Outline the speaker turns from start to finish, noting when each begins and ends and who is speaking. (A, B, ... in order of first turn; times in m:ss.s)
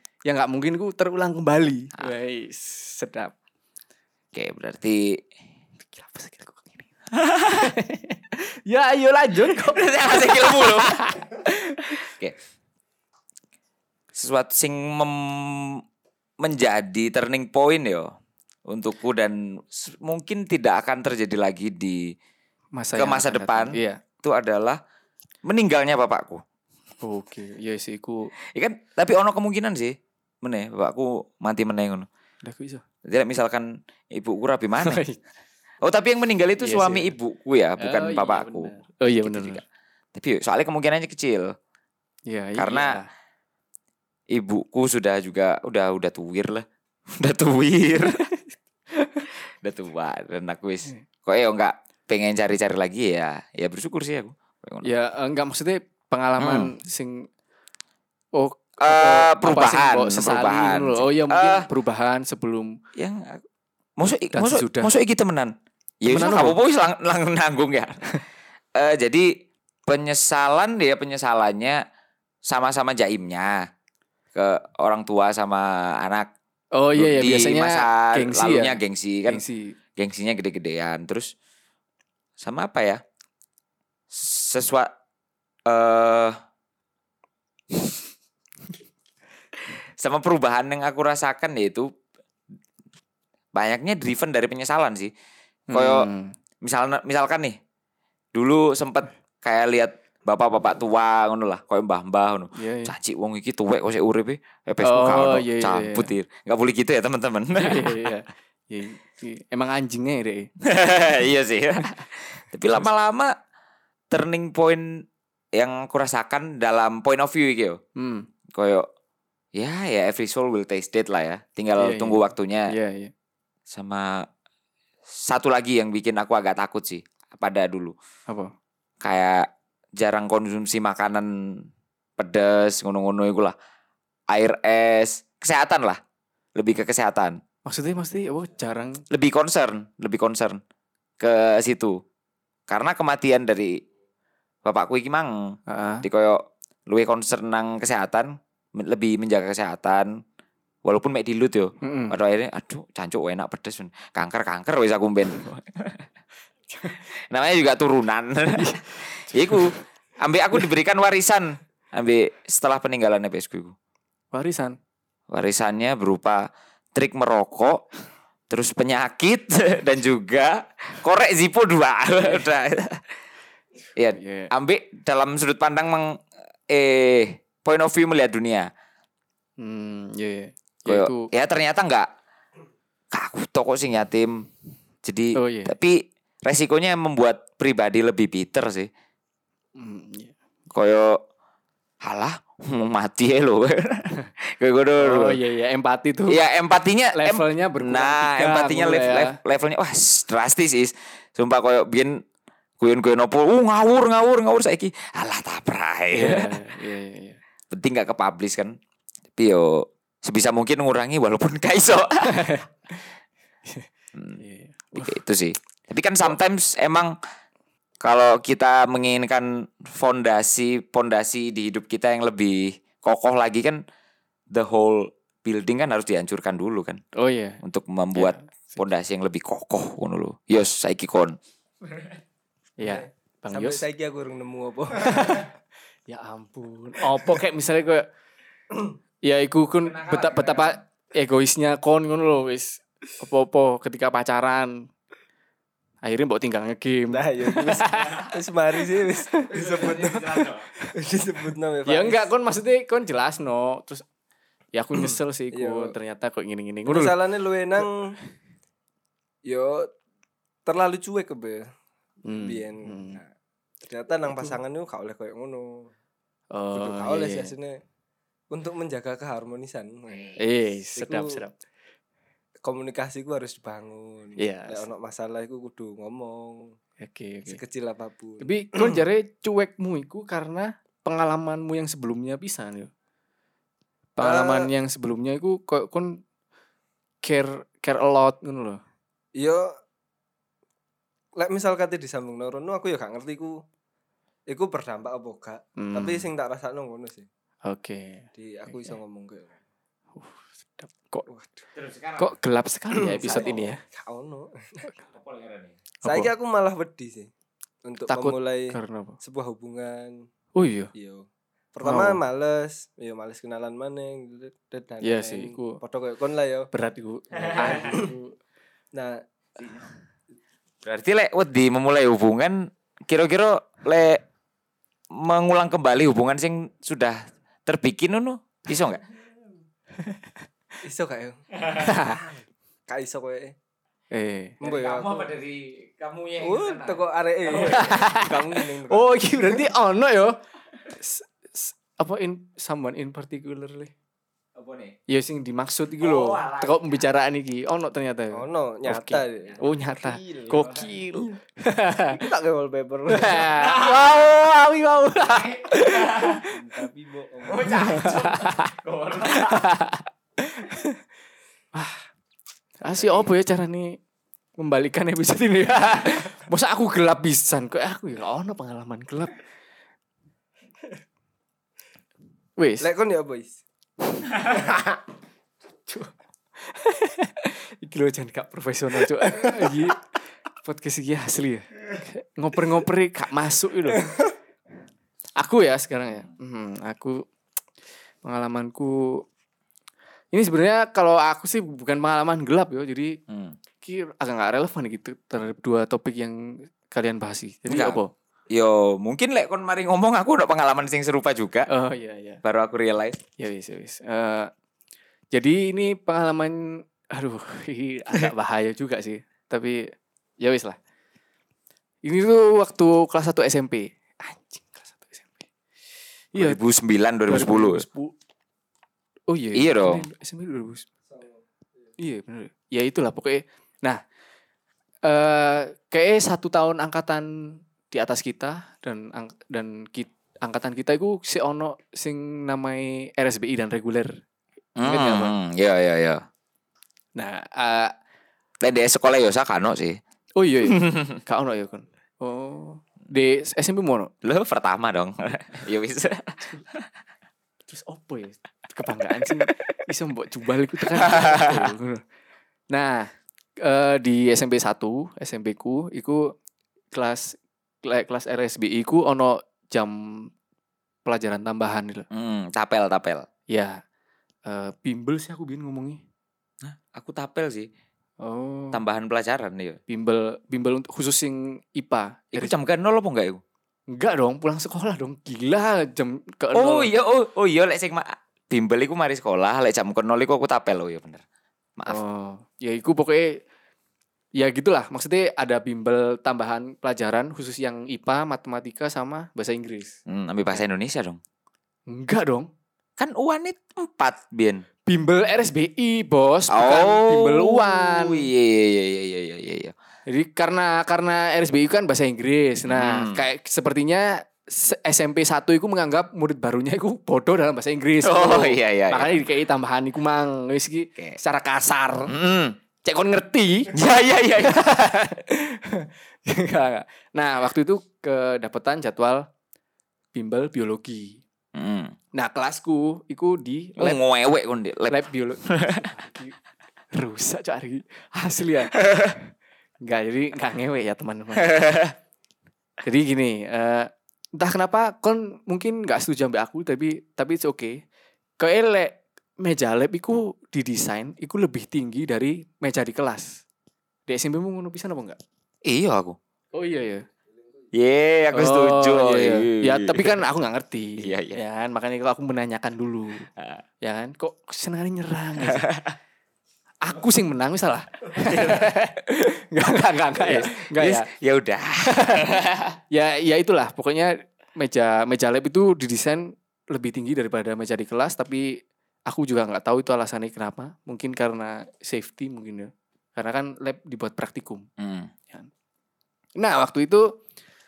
0:00.2-0:03.3 A
0:04.3-0:05.2 B
0:05.8-0:06.9 A
0:07.2-0:07.7 B
0:07.4-0:11.9 A
0:09.5-0:11.1 B
0:12.0-0:12.4 B
0:14.1-0:15.8 B
0:16.4-0:18.1 B
0:18.7-0:22.1 B
0:22.8-0:24.0 A
0:23.0-0:24.8 B
0:25.4-0:26.4 B
0:27.0-0:28.3 A
0:28.5-0:32.1 B
0:32.4-0:32.8 A
0:33.0-0:35.0 B
0:34.8-0:35.2 A
0:35.8-0:41.5 B
0:36.6-0:37.1 A
0:37.8-0:39.6 A
0:42.3-0:43.1 A
0:42.6-0:43.0 B
0:44.3-0:48.2 B
0:49.0-0:49.3 A
0:49.6-0:54.9 B
0:54.8-0:57.3 A
0:56.4-0:56.7 B
0:58.3-1:02.8 A
0:58.8-1:01.7 B
1:03.0-1:03.4 B
1:04.0-1:08.0 B
1:04.3-1:04.9 A
1:06.1-1:06.6 A
1:08.8-1:09.3 B
1:09.8-1:11.8 B
1:12.4-1:13.7 B
1:14.3-1:16.3 B
1:16.7-1:19.8 A
1:17.0-1:19.4 B
1:20.0-1:21.3 B
1:22.4-1:23.0 B
1:24.1-1:24.9 B
1:25.6-1:26.4 B
1:30.0-1:31.9 B
1:33.5-1:35.1 B
1:35.7-1:36.3 A
1:35.7-1:36.1 B
1:36.6-1:37.6 B
1:38.3-1:48.1 B
1:42.5-1:42.9 A
1:44.8-1:46.1 A
1:47.6-1:50.5 A
1:50.6-1:53.3 B
1:54.1-1:57.8 B
1:58.0-1:58.3 A
1:58.5-1:58.9 B
1:59.5-2:02.7 B
2:01.8-2:03.1 A
2:03.7-2:04.2 B
2:05.1-2:07.9 B
2:09.0-2:11.7 B
2:12.2-2:13.5 B
2:14.3-2:16.0 B
2:16.6-2:17.4 B
2:17.6-2:19.0 A
2:19.1-2:20.6 B
2:21.2-2:22.0 B
2:22.7-2:23.8 B
2:24.6-2:30.2 B
2:25.7-2:26.0 A
2:30.8-2:36.0 B
2:31.8-2:32.2 A
2:36.7-2:37.0 A
2:37.1-2:43.7 B
2:38.5-2:39.8 A
2:44.3-2:44.8 A
2:45.3-2:47.8 B
2:48.5-2:53.1 B
2:54.0-2:58.7 B
2:54.1-2:54.5 A
2:59.6-3:01.3 A
3:00.9-3:02.1 B
3:03.1-3:04.5 B
3:05.0-3:08.9 B
3:05.3-3:05.7 A
3:09.8-3:10.3 A
3:10.7-3:11.2 B
3:12.0-3:15.4 B
3:15.0-3:16.4 A
3:16.3-3:22.2 B
3:17.1-3:19.4 A
3:22.8-3:26.7 B
3:26.1-3:27.4 A
3:27.7-3:28.8 B
3:29.4-3:32.6 B
3:32.2-3:33.1 A
3:34.4-3:35.2 A
3:34.9-3:37.1 B
3:38.0-3:43.8 B
3:44.5-3:47.0 B
3:47.1-3:47.6 A
3:47.6-3:51.4 B
3:48.1-3:48.8 A
3:52.8-3:53.8 A
3:52.8-3:55.4 C
3:55.0-3:55.5 A
3:56.1-3:58.1 A
3:59.2-4:04.9 A
3:59.8-4:00.8 B
4:06.0-4:08.3 A
4:07.1-4:12.3 C
4:09.3-4:10.2 A
4:09.5-4:10.7 B
4:11.8-4:14.0 A
4:14.7-4:17.1 A
4:15.0-4:15.9 C
4:16.9-4:18.1 C
4:19.4-4:19.9 C
4:20.6-4:21.7 C
4:22.2-4:23.2 A
4:22.3-4:23.3 C
4:23.8-4:25.9 C
4:26.5-4:27.5 A
4:26.7-4:27.8 C
4:28.5-4:30.4 C
4:30.4-4:31.6 A
4:30.9-4:31.4 C
4:32.6-4:36.7 C
4:34.4-4:34.8 A
4:37.0-4:37.6 A
4:37.5-4:39.0 C
4:38.4-4:42.9 A
4:44.2-4:46.2 A
4:44.2-4:44.7 C
4:47.2-4:48.8 A
4:49.4-4:49.7 C
4:51.4-4:53.6 C
4:54.5-4:57.3 C
4:55.8-4:56.3 A
4:57.6-4:58.2 A
4:58.4-4:59.5 C
5:00.2-5:01.3 A
5:01.3-5:01.6 C
5:01.7-5:02.3 B
5:02.2-5:03.8 A
5:02.9-5:04.9 C
5:05.1-5:05.8 B
5:06.0-5:07.3 C
5:06.0-5:06.3 A
5:07.8-5:10.2 C
5:08.1-5:09.2 A
5:10.5-5:10.9 A
5:10.9-5:16.7 C
5:11.8-5:12.2 A
5:15.0-5:15.8 A
5:16.7-5:18.3 A
5:17.4-5:18.1 C
5:18.9-5:19.2 C
5:20.8-5:24.2 B
5:25.1-5:29.0 B
5:30.8-5:33.5 C
5:31.8-5:32.2 A
5:34.1-5:34.6 A
5:34.6-5:35.3 C
5:34.6-5:38.0 B
5:36.4-5:39.6 C
5:37.5-5:40.4 A
5:40.9-5:43.9 A
5:44.5-5:45.0 B
5:45.1-5:52.2 A
5:46.0-5:47.0 B
5:48.3-5:50.8 C
5:52.1-5:53.7 C
5:53.1-5:56.4 A
5:53.6-5:54.3 B
5:55.3-5:56.4 B
5:56.4-5:58.1 C
5:57.5-5:59.7 B
5:57.7-5:58.7 A
5:59.3-6:01.0 A
6:01.7-6:02.0 A
6:02.8-6:04.0 A
6:04.6-6:09.4 A
6:12.6-6:12.8 A
6:12.8-6:13.6 C
6:14.4-6:14.7 A
6:15.9-6:20.0 A
6:20.6-6:24.1 A
6:25.4-6:27.2 A
6:28.2-6:29.2 A
6:30.3-6:33.2 A
6:33.3-6:33.6 B
6:33.8-6:38.1 A
6:37.7-6:38.0 B
6:38.5-6:41.7 B
6:41.7-6:42.4 A
6:42.4-6:43.2 B
6:43.4-6:44.5 A
6:45.3-6:49.8 A
6:50.4-6:50.8 A
6:52.0-6:55.4 A
6:56.3-6:56.6 A
6:56.3-6:57.8 B
6:57.3-6:58.1 A
6:59.3-7:00.8 A
6:59.5-7:00.0 B
7:02.0-7:04.0 A
7:05.0-7:14.2 A
7:14.8-7:16.2 B
7:14.8-7:15.3 A
7:17.2-7:17.9 A
7:18.6-7:20.0 B
7:20.4-7:24.1 A
7:20.7-7:21.2 B
7:24.2-7:26.9 B
7:27.7-7:32.0 A
7:29.2-7:29.5 B
7:30.9-7:31.7 B
7:32.7-7:36.3 A
7:36.9-7:40.3 A
7:41.0-7:42.0 A
7:42.1-7:43.3 B
7:43.5-7:43.8 A
7:44.4-7:46.0 A
7:46.6-7:47.7 B
7:48.2-7:48.8 A
7:48.7-7:49.8 B
7:49.9-7:52.5 A
7:52.3-7:53.4 B
7:53.9-7:56.9 A
7:56.5-8:01.2 B
8:01.9-8:03.4 A
8:04.4-8:10.0 A
8:10.1-8:11.2 B
8:11.9-8:12.5 A
8:13.0-8:14.6 B
8:14.8-8:18.3 A
8:16.5-8:19.7 B
8:20.1-8:32.1 A
8:22.6-8:23.2 B
8:28.0-8:29.2 B
8:32.1-8:32.6 B
8:32.8-8:33.7 A
8:33.7-8:34.6 B
8:34.4-8:39.3 A
8:40.1-8:41.2 A
8:41.5-8:42.0 B
8:42.1-8:44.0 A
8:43.8-8:45.9 B
8:44.9-8:46.4 A
8:46.9-8:49.0 A
8:48.8-8:49.1 B
8:49.8-8:51.6 A
8:51.4-8:51.9 B
8:52.8-8:57.8 A
8:58.4-9:03.4 A
9:04.1-9:05.2 A
9:05.6-9:06.2 B
9:06.5-9:07.0 A
9:07.7-9:10.2 B
9:08.3-9:13.3 A
9:11.0-9:11.4 B
9:13.4-9:13.6 B
9:13.8-9:15.7 A
9:15.4-9:15.9 B
9:16.8-9:21.1 A
9:18.1-9:18.7 B
9:20.2-9:22.8 B
9:21.8-9:22.4 A
9:22.9-9:34.6 A
9:34.8-9:35.1 B
9:36.4-9:37.2 A